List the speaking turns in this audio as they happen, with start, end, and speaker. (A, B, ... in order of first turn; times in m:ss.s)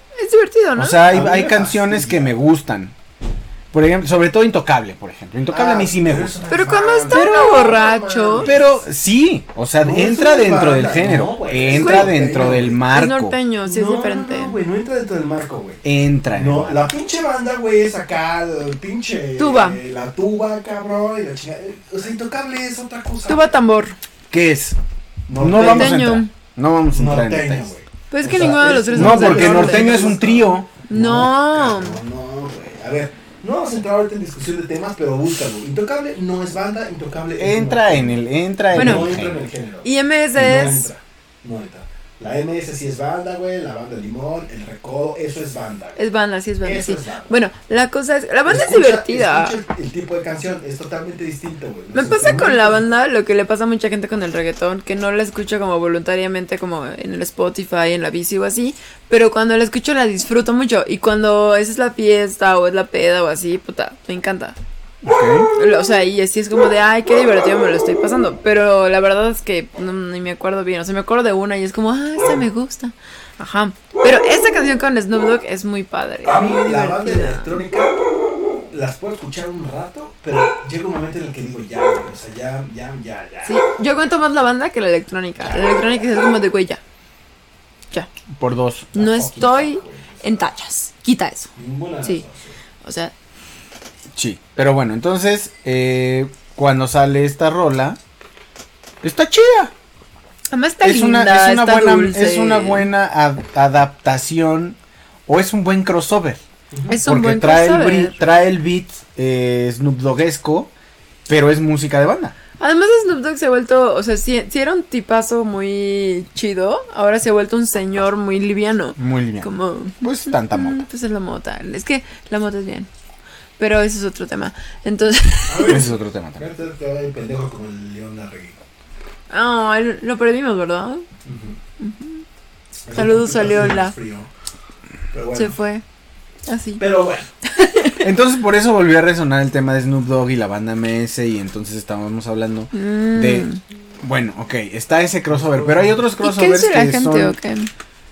0:00.2-0:01.0 A
0:00.8-0:02.9 B
0:01.0-0:02.4 C
0:03.7-0:06.4 B
0:05.5-0:08.8 C
0:06.5-0:08.5 A
0:07.1-0:07.6 B
0:08.4-0:13.4 B
0:09.8-0:12.8 C
0:11.7-0:12.3 A
0:12.9-0:14.6 A
0:13.6-0:23.6 C
0:15.8-0:16.8 B
0:19.4-0:19.8 A
0:23.2-0:24.0 A
0:24.3-0:24.8 B
0:25.3-0:26.0 C
0:25.4-0:27.7 B
0:25.6-0:26.3 A
0:26.9-0:38.2 C
0:28.1-0:30.1 A
0:28.4-0:30.7 B
0:30.9-0:32.0 A
0:37.4-0:39.4 B
0:38.7-0:46.0 C
0:38.7-0:39.1 A
0:39.8-0:40.9 A
0:46.0-0:49.6 A
0:46.6-0:47.4 C
0:48.4-0:52.8 C
0:51.9-1:04.6 A
1:05.0-1:05.5 B
1:05.5-1:17.6 A
1:16.2-1:18.0 C
1:18.7-1:23.6 C
1:23.4-1:26.8 A
1:25.4-1:26.0 C
1:28.3-1:28.9 B
1:28.9-1:30.5 C
1:28.9-1:31.5 A
1:31.6-1:32.6 C
1:32.8-1:33.1 A
1:34.1-1:38.0 B
1:39.0-1:39.7 B
1:40.5-1:42.9 A
1:40.8-1:44.8 B
1:45.3-1:46.4 B
1:46.7-1:47.0 C
1:46.9-1:48.2 A
1:47.0-1:50.7 B
1:51.3-1:52.3 B
1:52.6-2:02.9 A
1:59.0-1:59.5 B
2:00.0-2:00.8 B
2:03.6-2:05.8 A
2:05.5-2:08.6 C
2:05.7-2:06.5 B
2:09.3-2:11.1 A
2:11.2-2:11.6 C
2:11.8-2:12.2 A
2:12.8-2:14.3 C
2:12.9-2:14.0 A
2:15.1-2:15.5 C
2:15.3-2:15.8 A
2:16.4-2:16.8 A
2:16.8-2:17.3 C
2:17.4-2:18.0 A
2:18.0-2:23.5 B
2:22.7-2:23.6 A
2:24.0-2:27.4 B
2:25.3-2:26.0 C
2:26.2-2:27.7 A